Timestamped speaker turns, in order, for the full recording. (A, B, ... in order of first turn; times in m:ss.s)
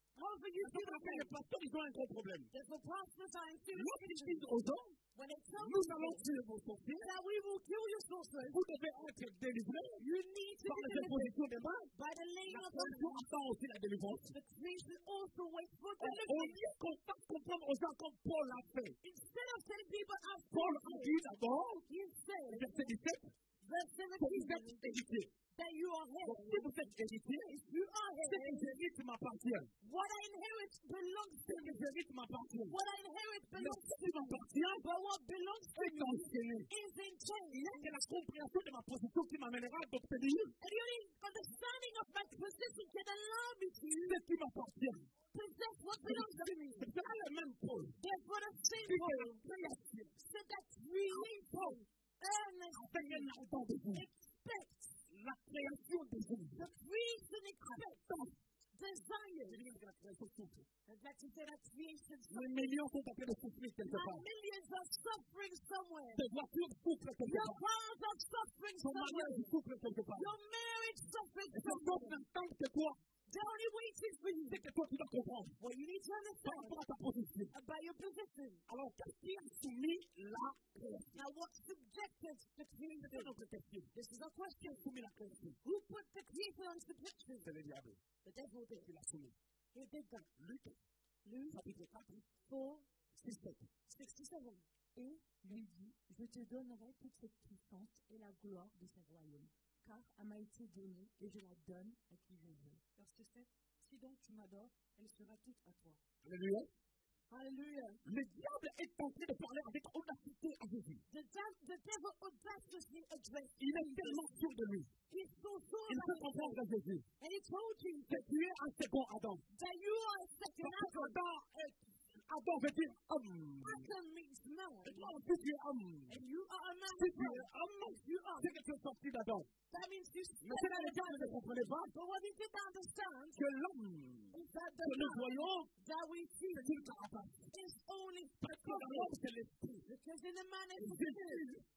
0:00.1-0:01.3 A
0:00.6-0:02.5 B
0:02.5-0:04.5 A
0:03.7-0:05.0 B
0:05.1-0:06.3 A
0:05.5-0:07.1 B
0:07.0-0:08.6 A
0:08.5-0:10.0 B
0:10.0-0:11.3 A
0:10.6-0:11.9 B
0:11.9-0:13.3 A
0:12.4-0:14.4 B
0:14.3-0:16.6 A
0:16.0-0:19.0 B
0:19.0-0:21.2 A
0:20.5-0:21.8 B
0:21.9-0:22.9 A
0:22.5-0:23.3 B
0:23.6-0:24.9 A
0:24.2-0:25.3 B
0:25.5-0:26.7 A
0:26.2-0:27.5 B
0:27.4-0:28.7 A
0:28.3-0:29.7 B
0:29.8-0:31.8 A
0:31.4-0:32.8 B
0:32.7-0:37.9 A
0:33.5-0:34.8 B
0:35.7-0:36.7 B
0:37.5-0:40.5 B
0:40.6-0:44.2 A
0:44.0-0:45.1 B
0:45.3-0:47.0 A
0:46.0-0:48.0 B
0:48.0-0:49.4 A
0:48.8-0:50.1 B
0:50.2-0:53.3 A
0:51.1-0:51.8 B
0:52.7-0:54.1 B
0:53.9-0:55.0 A
0:55.1-0:56.7 B
0:56.5-0:58.0 A
0:57.6-0:58.4 B
0:58.7-0:59.6 A
0:59.5-1:00.7 B
1:00.8-1:02.8 A
1:02.3-1:04.2 B
1:03.8-1:06.2 A
1:06.1-1:07.6 B
1:07.2-1:09.5 A
1:08.8-1:10.3 B
1:10.1-1:12.2 A
1:11.5-1:13.0 B
1:13.3-1:14.6 A
1:14.5-1:15.6 B
1:15.6-1:16.8 A
1:16.4-1:17.5 B
1:17.5-1:18.6 A
1:18.7-1:21.2 B
1:21.1-1:23.3 A
1:23.0-1:23.9 B
1:23.9-1:24.9 A
1:24.6-1:25.6 B
1:25.6-1:27.5 A
1:27.4-1:28.0 B
1:28.2-1:28.9 A
1:28.8-1:29.4 B
1:29.7-1:30.3 A
1:30.4-1:30.8 B
1:31.2-1:31.6 A
1:31.5-1:32.3 B
1:32.5-1:32.9 A
1:33.1-1:33.7 B
1:33.9-1:34.7 A
1:34.9-1:46.0 C
1:46.2-1:46.7 B
1:47.3-1:48.0 A
1:48.0-1:51.0 B
1:51.1-1:54.3 A
1:53.6-1:54.9 B
1:55.1-1:56.6 A
1:55.9-1:57.1 B
1:57.2-1:58.2 A
1:58.1-1:59.4 B
1:59.5-2:01.2 A
2:00.6-2:03.9 B
2:03.6-2:05.2 A
2:04.8-2:06.2 B
2:06.1-2:08.5 A
2:06.9-2:09.5 B
2:09.7-2:13.4 A
2:10.4-2:11.9 B
2:13.3-2:15.7 B
2:14.3-2:16.8 A
2:16.5-2:17.5 B
2:17.5-2:19.1 A
2:18.4-2:19.8 B
2:19.8-2:21.5 A
2:20.8-2:21.6 B